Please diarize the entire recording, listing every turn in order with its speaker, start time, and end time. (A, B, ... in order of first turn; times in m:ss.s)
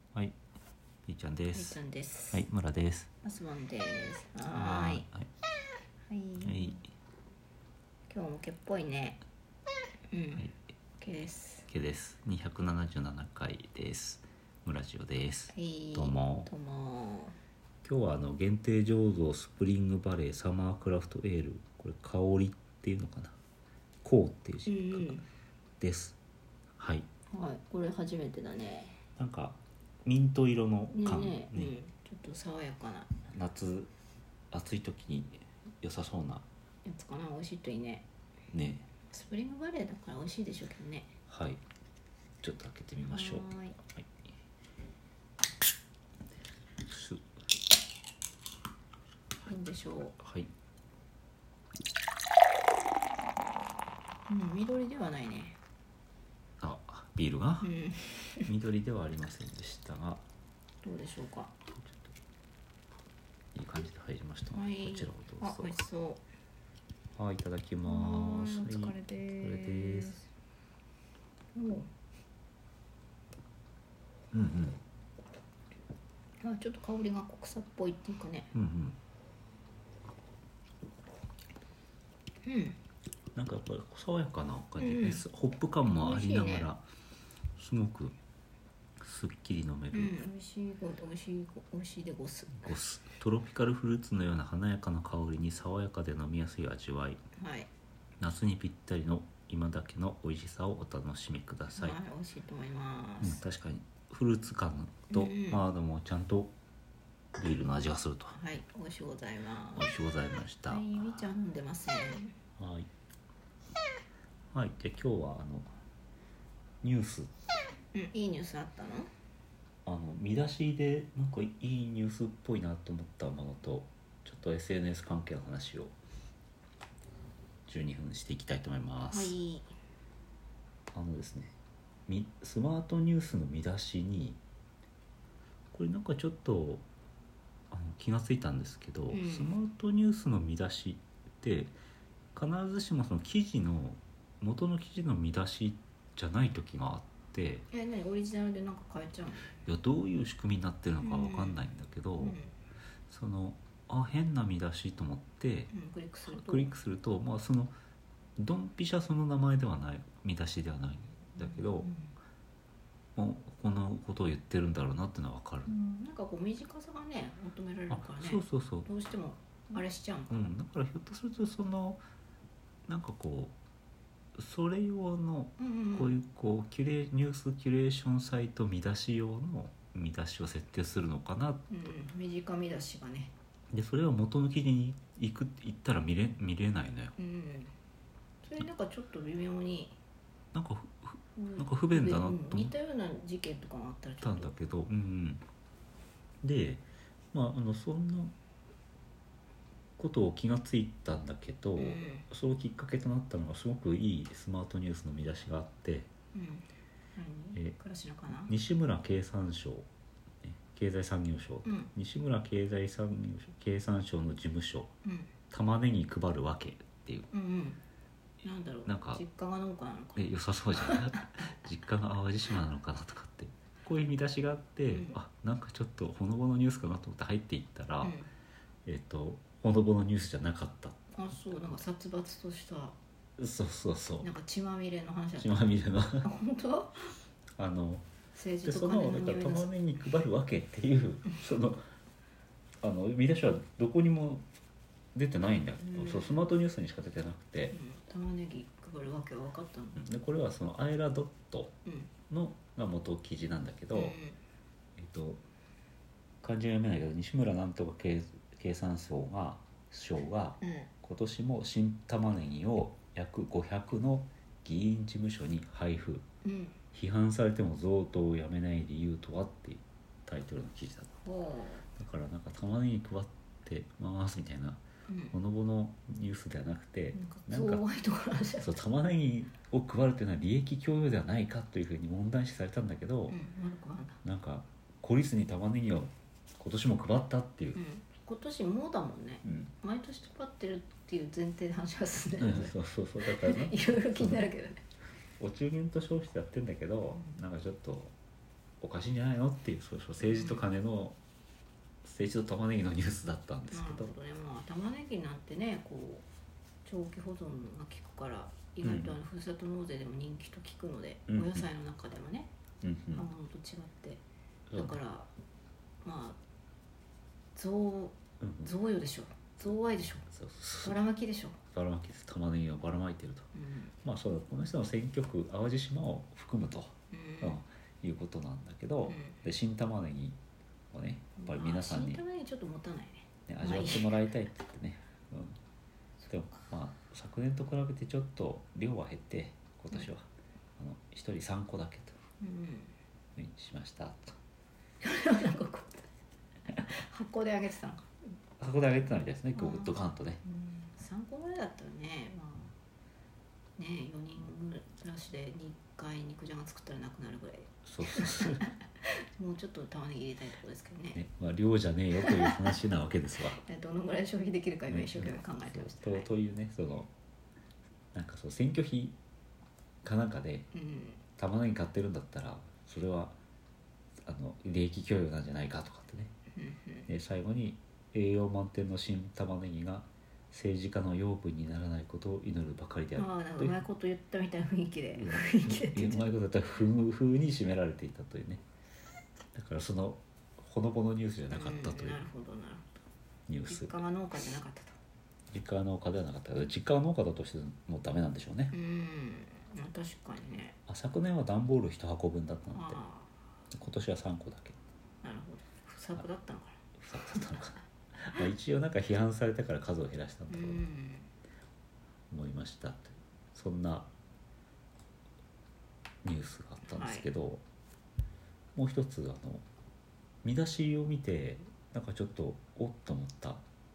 0:01.1-0:01.8 A
0:01.5-0:02.4 B
0:02.3-0:03.1 A
0:03.2-0:05.0 B
0:04.5-0:05.3 A
0:06.1-0:06.8 B
0:06.4-0:06.9 A
0:08.1-0:09.2 B
0:10.1-0:11.7 B
0:11.7-0:16.5 A
0:15.5-0:17.4 B
0:17.8-0:23.4 A
0:24.0-0:25.2 A
0:24.7-0:25.2 B
0:25.8-0:26.2 A
0:26.8-0:27.1 A
0:27.3-0:29.0 B
0:29.2-0:31.8 A
0:30.9-0:33.1 B
0:33.3-0:33.9 A
0:34.5-0:36.5 A
0:36.8-0:38.1 B
0:38.5-0:38.9 A
0:39.1-0:41.1 B
0:41.3-0:41.6 A
0:42.4-0:44.2 A
0:43.0-0:43.8 B
0:46.8-0:47.3 A
0:49.4-0:50.2 B
0:50.2-0:50.5 A
0:54.3-0:55.6 B
0:56.6-0:57.7 A
0:57.6-0:58.5 B
0:58.4-1:00.2 A
1:00.8-1:01.5 B
1:01.8-1:02.1 A
1:03.6-1:05.8 A
1:04.5-1:06.2 B
1:07.2-1:10.2 A
1:07.9-1:10.3 B
1:11.6-1:11.9 B
1:14.3-1:14.8 A
1:16.4-1:18.5 B
1:18.5-1:19.0 A
1:22.4-1:22.8 B
1:23.4-1:26.8 A
1:24.8-1:25.2 B
1:25.9-1:26.7 B
1:27.6-1:28.2 A
1:29.0-1:30.2 A
1:29.9-1:32.7 B
1:32.6-1:37.2 A
1:37.4-1:37.7 B
1:38.2-1:42.0 A
1:41.8-1:43.4 B
1:43.2-1:46.5 A
1:45.1-1:45.6 B
1:47.4-1:48.4 A
1:48.3-1:49.9 B
1:49.7-1:50.8 A
1:50.7-1:52.4 B
1:52.6-1:52.9 A
1:54.5-1:55.7 A
1:56.8-1:57.3 A
1:57.9-1:59.1 B
1:59.8-2:06.0 A
2:07.7-2:09.4 A
2:09.1-2:09.7 B
2:10.9-2:11.6 A
2:12.1-2:14.4 A
2:15.7-2:16.8 A
2:17.7-2:21.7 A
2:19.1-2:19.6 B
2:22.4-2:27.6 A
2:27.7-2:29.5 B
2:29.6-2:32.4 A
2:31.0-2:31.6 B
2:32.2-2:32.5 B
2:33.1-2:35.7 A
2:35.7-2:36.7 B
2:36.3-2:37.7 A
2:38.4-2:41.9 A
2:41.4-2:42.1 B
2:43.2-2:45.7 A
2:45.6-2:50.5 B
2:47.9-2:48.9 A
2:50.3-2:52.0 A
2:52.9-2:53.6 A
2:54.4-3:01.7 A
2:55.6-2:56.1 B
3:01.7-3:03.3 B
3:03.7-3:07.1 A
3:07.2-3:07.7 B
3:08.4-3:10.0 B
3:10.5-3:12.7 A
3:11.4-3:14.5 B
3:14.2-3:15.4 A
3:16.4-3:18.3 A
3:20.0-3:26.1 A
3:21.8-3:22.3 B
3:26.3-3:28.5 B
3:28.5-3:29.9 A
3:30.4-3:34.9 A
3:31.6-3:31.9 B
3:35.0-3:35.3 B
3:35.5-3:37.3 A
3:37.3-3:37.8 B
3:38.4-3:41.2 B
3:38.9-3:39.2 A
3:40.2-3:48.2 A
3:44.9-3:45.2 B
3:48.0-3:48.3 B
3:48.8-3:51.0 A
3:51.2-3:53.0 B
3:53.4-3:54.3 A
3:54.2-3:55.6 B
3:55.4-3:56.3 A
3:56.2-3:57.2 B
3:57.6-3:58.1 A
3:58.3-3:59.7 B
3:58.6-4:01.8 A
4:02.8-4:04.4 A
4:05.2-4:07.7 A
4:05.8-4:06.4 B
4:07.7-4:10.0 B
4:10.0-4:11.8 A
4:11.8-4:12.1 B
4:12.3-4:14.2 A
4:13.9-4:14.4 B
4:15.0-4:15.4 A
4:16.4-4:26.2 A
4:20.6-4:20.9 B
4:26.4-4:26.8 B
4:26.9-4:31.2 A
4:31.2-4:31.8 B
4:32.0-4:34.8 A
4:35.1-4:35.3 B
4:35.3-4:37.8 A
4:37.1-4:38.8 B
4:38.6-4:43.4 A
4:43.3-4:44.2 B
4:44.2-4:47.8 A
4:47.8-4:54.8 B
4:49.4-4:49.7 A
4:52.4-4:54.5 A
4:55.4-4:58.1 A
4:58.8-5:01.2 A
5:00.2-5:00.6 B
5:02.0-5:04.1 A
5:03.7-5:06.3 B
5:06.8-5:12.5 B
5:08.8-5:09.2 A
5:11.3-5:11.7 A
5:12.8-5:13.3 A
5:13.1-5:14.2 B
5:14.7-5:15.0 A
5:14.7-5:15.3 B
5:16.0-5:16.4 B
5:17.6-5:20.3 B
5:18.4-5:18.7 A
5:20.3-5:21.0 A
5:20.8-5:21.6 B
5:21.7-5:23.5 A
5:23.6-5:23.9 B
5:24.0-5:30.4 A
5:27.1-5:27.6 B
5:29.1-5:29.4 B
5:30.9-5:32.2 A
5:31.4-5:34.2 B
5:33.5-5:35.6 A
5:36.3-5:42.2 A
5:42.4-5:43.0 B
5:43.4-5:44.4 A
5:45.0-5:46.1 B
5:46.7-5:48.1 B
5:48.6-5:50.4 A
5:49.5-5:52.8 B
5:53.8-6:01.2 B
5:57.8-5:58.6 A
6:01.2-6:03.6 A
6:02.2-6:02.6 B
6:03.6-6:06.3 B
6:04.9-6:07.1 A
6:08.1-6:09.2 A
6:10.0-6:10.7 A
6:10.7-6:11.2 B
6:11.4-6:13.4 A
6:14.2-6:16.3 A
6:16.5-6:17.1 B
6:17.1-6:23.8 A
6:23.2-6:26.3 B
6:25.1-6:28.6 A
6:29.5-6:32.2 A
6:31.5-6:32.8 B
6:33.5-6:34.0 A
6:33.7-6:35.0 B
6:35.5-6:38.8 A
6:38.7-6:40.8 B
6:40.9-6:43.0 A
6:42.7-6:43.3 B
6:43.7-6:44.8 A
6:45.2-6:46.8 B
6:47.0-6:50.9 A
6:50.5-6:51.3 B
6:52.3-6:54.1 A
6:56.2-6:57.6 A
6:56.8-6:57.3 B
6:58.8-6:59.6 A
7:00.4-7:03.6 A